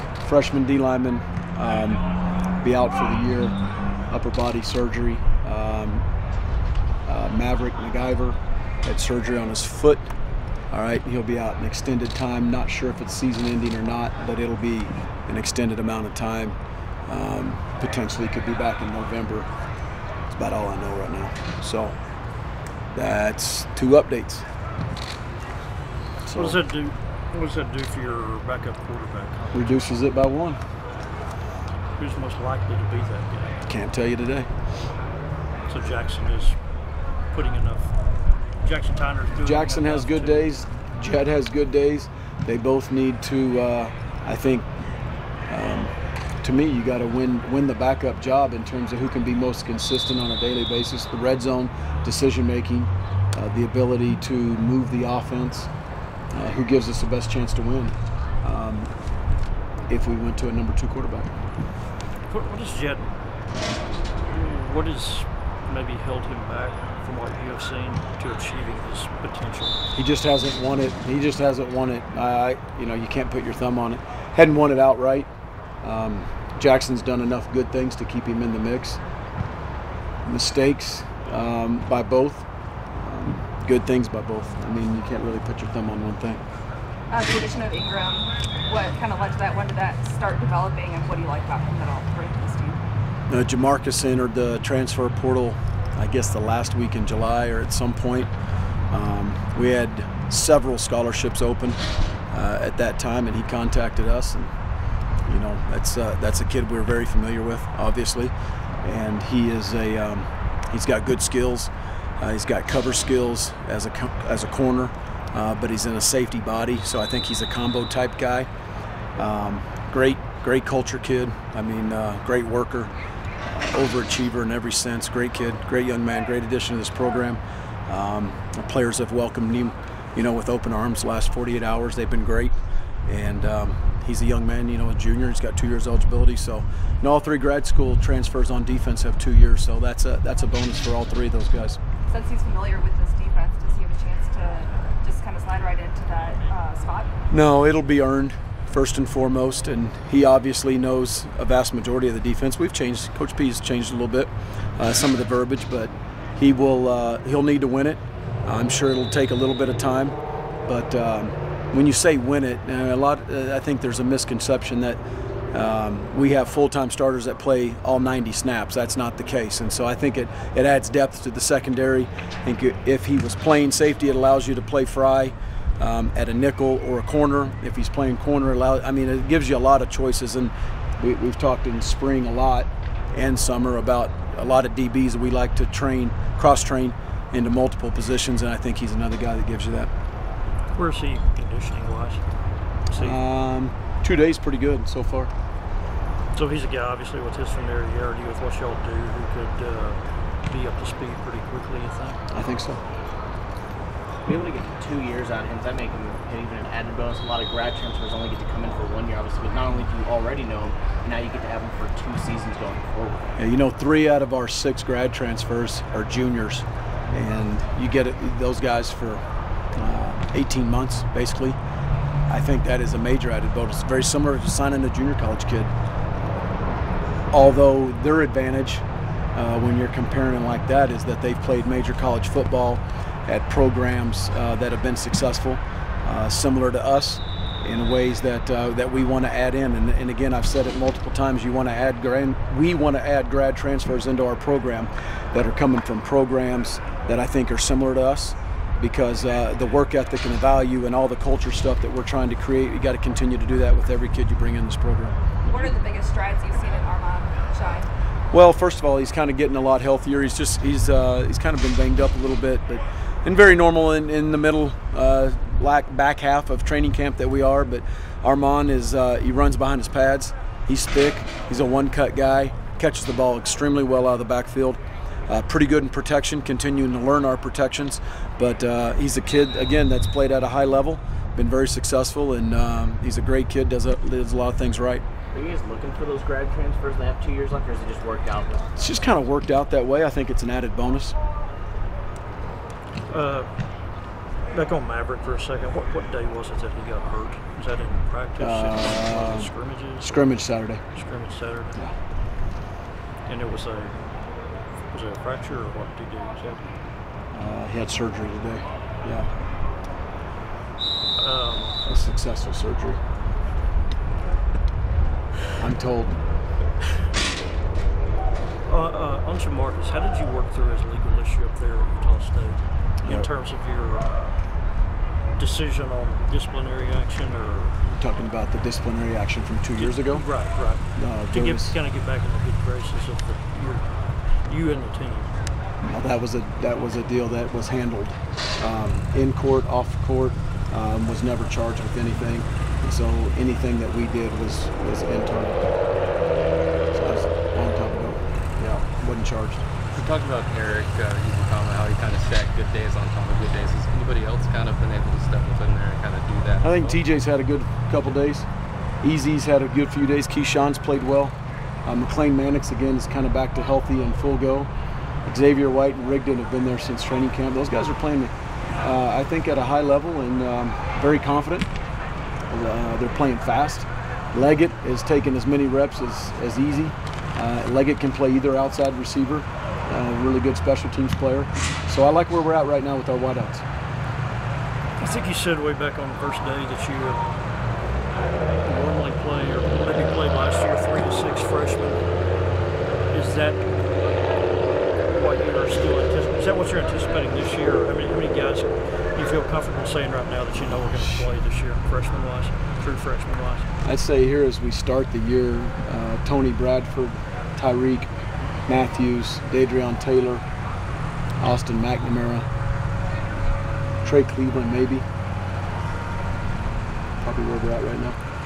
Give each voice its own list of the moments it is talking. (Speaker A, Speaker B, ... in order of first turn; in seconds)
Speaker A: 0.2-2.0, 2.6-3.5, 4.1-6.0, 7.0-10.1, 10.7-19.5, 20.3-22.0, 22.9-24.4, 26.2-26.6, 29.5-30.6, 33.6-34.5, 39.4-44.6, 45.5-55.7, 56.3-58.9, 59.9-61.3, 69.9-75.3, 75.8-79.0, 80.2-86.4, 93.3-98.3, 98.9-101.8, 102.3-104.5, 105.2-118.5, 119.2-122.9, 123.5-141.8, 147.3-165.0, 165.5-189.9, 192.9-195.3, 202.3-202.8, 213.3-219.2, 219.7-221.6, 222.3-225.7, 227.3-255.7, 258.3-285.0, 288.7-291.1, 298.4-300.8, 307.3-309.3, 311.8-313.0, 315.6-316.2, 323.0-323.3, 327.9-330.2, 330.9-331.8, 335.8-345.6, 346.9-349.6, 356.6-358.5, 359.0-361.3, 361.9-364.7, 365.2-371.7, 372.5-383.6, 400.7-401.2, 403.8-408.1, 408.7-410.4, 411.4-412.5, 414.0-415.1, 417.2-418.2
Speaker B: 26.3-29.8, 32.0-33.6, 35.7-36.6, 37.3-37.9, 38.6-40.5, 62.3-63.1, 64.3-69.8, 190.7-192.2, 192.9-193.2, 196.3-202.2, 293.1-293.5, 294.5-300.1, 300.9-301.7, 303.3-303.9, 304.9-306.7, 311.2-311.8, 318.6-324.1, 325.4-327.8, 329.8-333.9, 334.4-335.3, 385.0-387.3, 388.6-392.0, 393.1-393.6, 395.1-403.7
Speaker C: 87.1-92.8, 142.1-147.1, 255.4-257.9
Speaker D: 204.2-213.3, 285.3-288.7
Speaker E: 349.9-357.0